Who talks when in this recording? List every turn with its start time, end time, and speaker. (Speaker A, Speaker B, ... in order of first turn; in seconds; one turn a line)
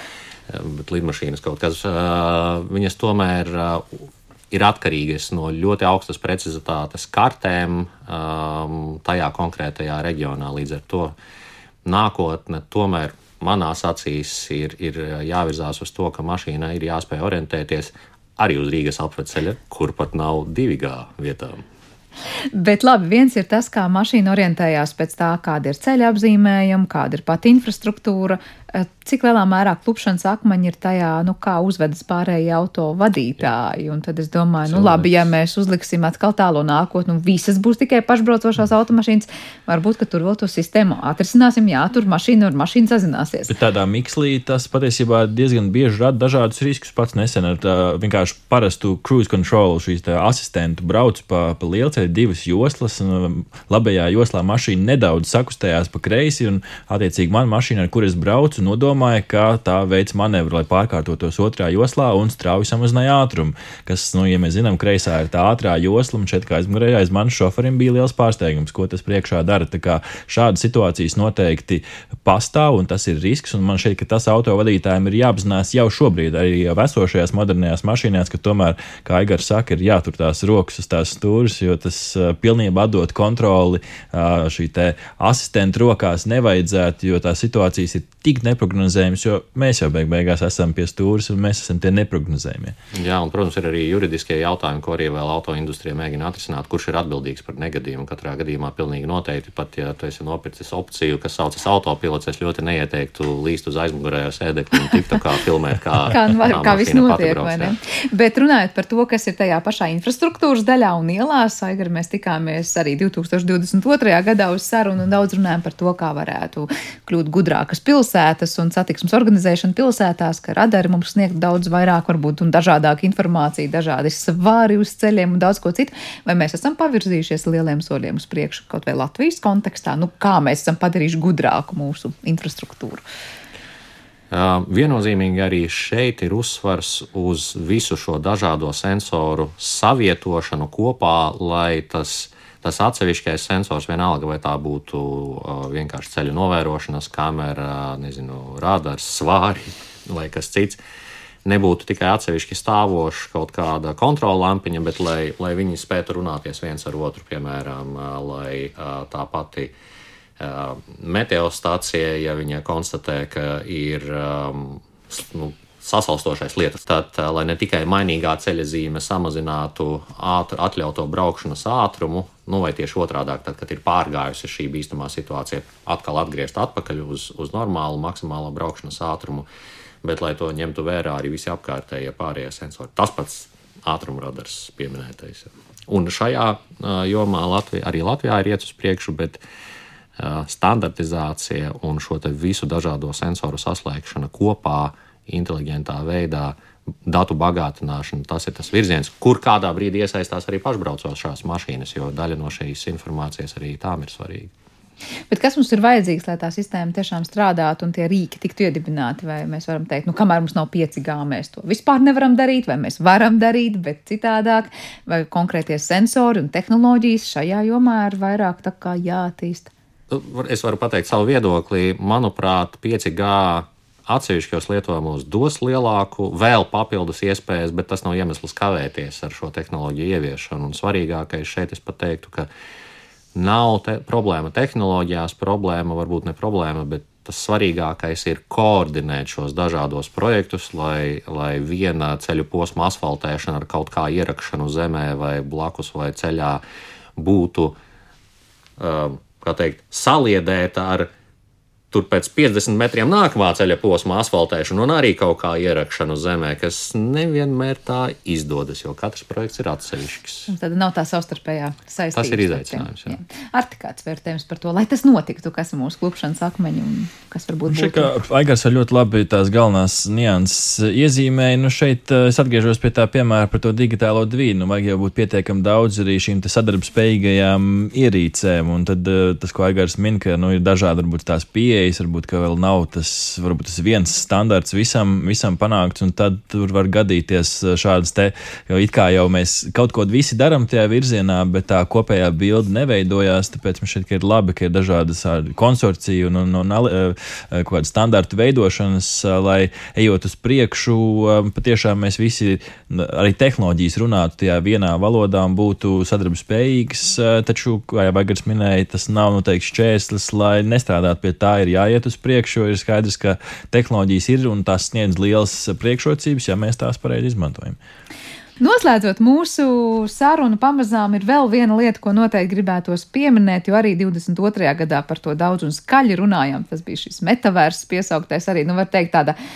Speaker A: 0.5-11.1
Speaker A: 11.8-21.6
Speaker B: 22.5-43.5
Speaker A: 34.6-35.2
Speaker C: 43.5-92.8
Speaker A: 92.9-107.8
Speaker B: 106.1-133.0
Speaker A: 134.3-150.8
Speaker A: 151.4-159.7
Speaker A: 160.4-179.5
Speaker A: 180.0-189.4
Speaker A: 190.2-204.5
Speaker B: 205.3-219.7
Speaker A: 220.1-232.5
Speaker A: 233.3-246.6
Speaker A: 247.2-247.8
Speaker A: 248.8-251.1
Speaker A: 251.9-260.5
Speaker B: 260.5-268.1
Speaker A: 262.1-263.1
Speaker C: 267.7-317.8
Speaker B: 318.6-329.4